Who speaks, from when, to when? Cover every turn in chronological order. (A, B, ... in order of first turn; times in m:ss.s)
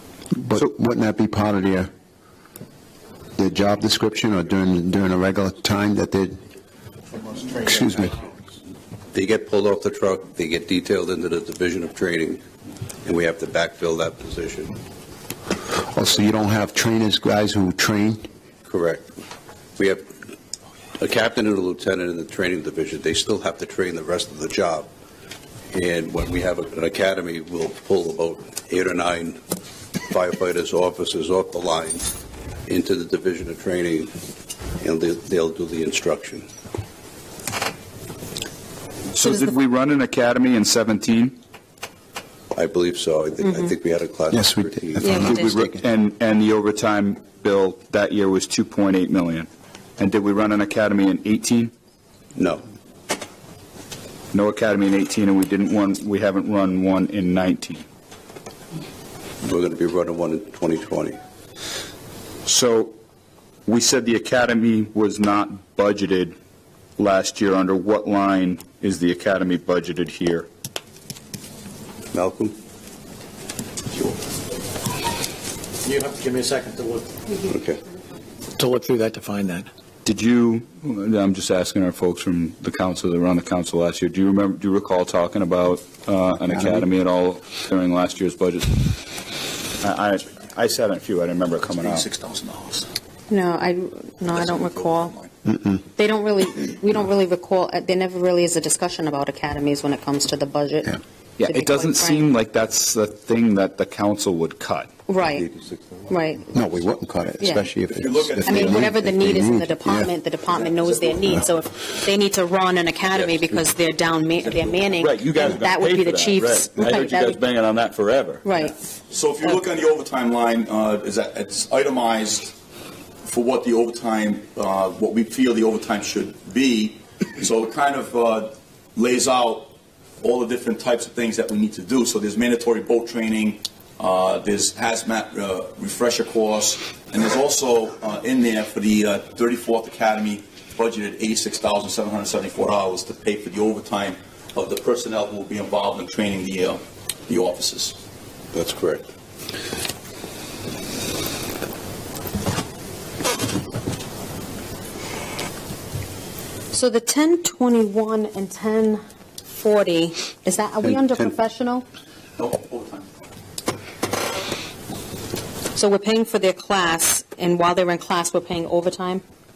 0:00.3-0:01.9 A
0:03.4-0:06.4 A
0:07.5-0:08.2 A
0:09.1-0:12.4 B
0:13.1-0:14.8 B
0:15.8-0:18.2 A
0:18.6-0:19.1 B
0:19.8-0:20.1 B
0:21.0-0:24.9 B
0:25.7-0:29.4 B
0:30.1-0:32.1 B
0:32.7-0:34.1 B
0:34.8-0:36.5 B
0:39.1-0:41.4 C
0:39.2-0:39.5 D
0:42.6-0:45.3 B
0:43.4-0:43.7 D
0:44.3-0:45.8 A
0:45.0-0:45.6 D
0:45.2-0:51.7 C
0:52.4-0:52.6 B
0:54.3-0:57.8 C
0:59.4-1:01.2 B
1:02.5-1:03.0 C
1:03.7-1:06.4 C
1:07.0-1:10.5 C
1:12.1-1:12.6 B
1:15.8-1:17.1 E
1:17.5-1:17.8 B
1:18.6-1:19.7 E
1:20.0-1:28.9 C
1:26.5-1:26.8 A
1:29.8-1:32.1 C
1:32.0-1:32.9 F
1:33.3-1:35.1 D
1:34.4-1:35.3 F
1:35.5-1:35.8 A
1:36.0-1:42.3 D
1:41.4-1:44.9 C
1:45.1-1:45.5 D
1:45.3-1:46.1 B
1:46.1-1:46.4 D
1:46.5-1:50.1 A
1:47.4-1:47.7 D
1:47.9-1:48.9 F
1:48.4-1:57.4 D
1:54.5-1:55.0 F
1:55.0-1:58.4 C
1:58.4-1:58.8 D
1:59.1-2:02.5 F
2:03.2-2:28.0 F
2:28.5-2:29.1 B
2:36.7-2:39.0 D
2:39.6-2:41.8 D
2:40.8-2:41.3 B
2:42.4-2:43.0 F
2:45.8-2:49.2 D